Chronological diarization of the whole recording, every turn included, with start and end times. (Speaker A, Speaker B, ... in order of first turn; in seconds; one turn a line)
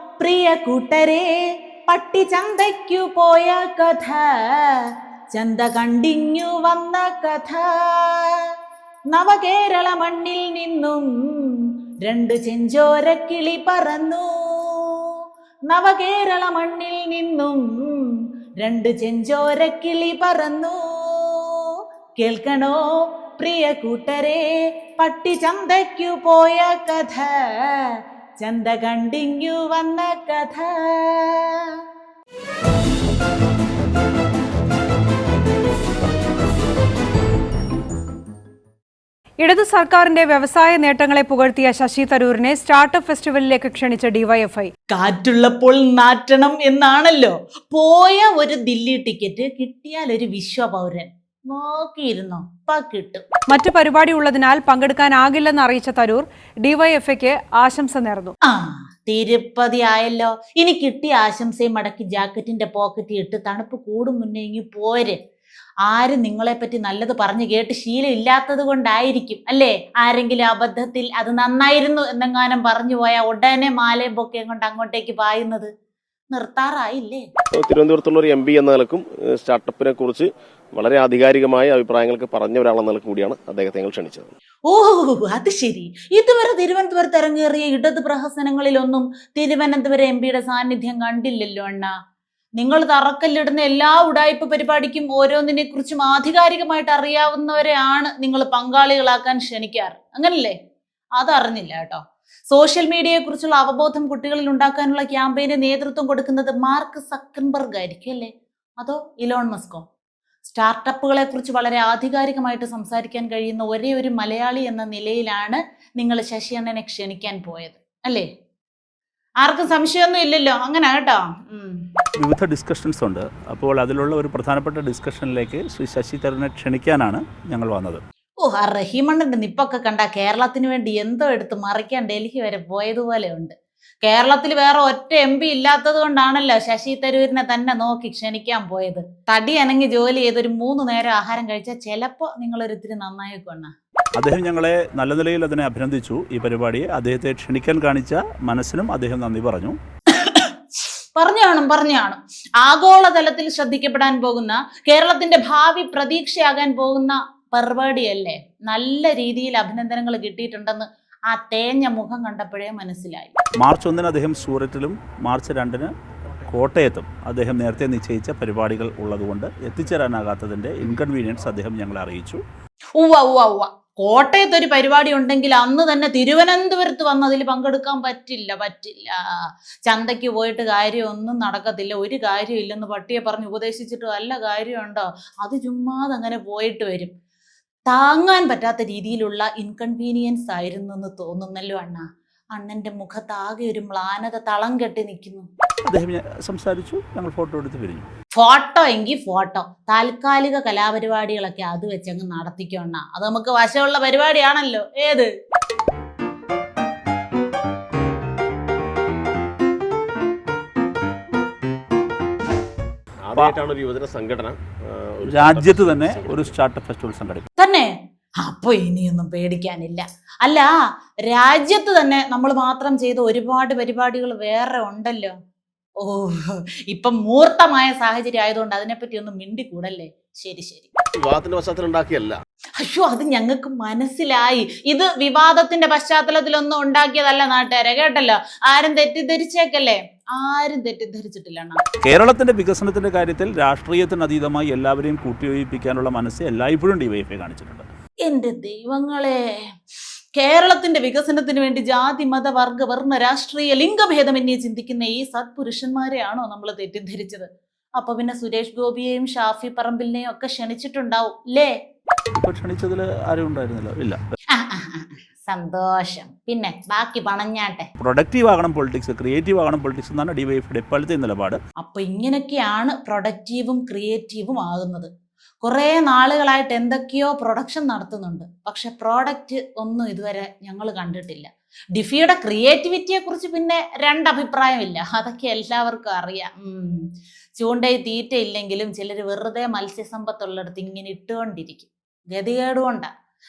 Speaker A: 0.2-1.3
Speaker A: 1.9-8.4
Speaker A: 9.1-15.2
Speaker A: 15.7-22.9
Speaker A: 23.4-24.4
Speaker A: 25.0-31.7
Speaker B: 39.4-44.7
Speaker A: 44.9-53.2
Speaker B: 53.5-58.3
Speaker A: 58.5-65.2
Speaker A: 65.9-75.7
Speaker A: 76.3-77.2
Speaker C: 77.6-84.3
Speaker A: 84.7-91.9
Speaker A: 92.6-100.5
Speaker A: 101.2-109.8
Speaker A: 110.5-118.3
Speaker A: 119.4-121.8
Speaker D: 122.2-128.0
Speaker A: 128.4-143.7
Speaker D: 144.2-149.8
Speaker A: 150.2-150.6
Speaker A: 151.2-163.3
Speaker D: 163.6-165.9
Speaker D: 166.5-172.4
Speaker A: 173.0-187.1
Speaker A: 187.9-195.5
Speaker D: 195.8-198.1
Speaker A: 198.3-205.3
Speaker C: 213.2-216.5
Speaker D: 215.3-217.5
Speaker A: 217.6-217.9
Speaker A: 218.4-220.7
Speaker A: 221.3-225.3
Speaker A: 226.0-230.9
Speaker C: 231.2-232.4
Speaker A: 232.8-241.8
Speaker D: 242.0-247.9
Speaker A: 248.3-249.4
Speaker A: 250.3-257.5
Speaker A: 258.0-261.7
Speaker D: 262.3-264.2
Speaker A: 264.6-267.9
Speaker D: 268.0-271.6
Speaker A: 271.8-275.1
Speaker A: 275.6-287.0
Speaker A: 287.6-293.1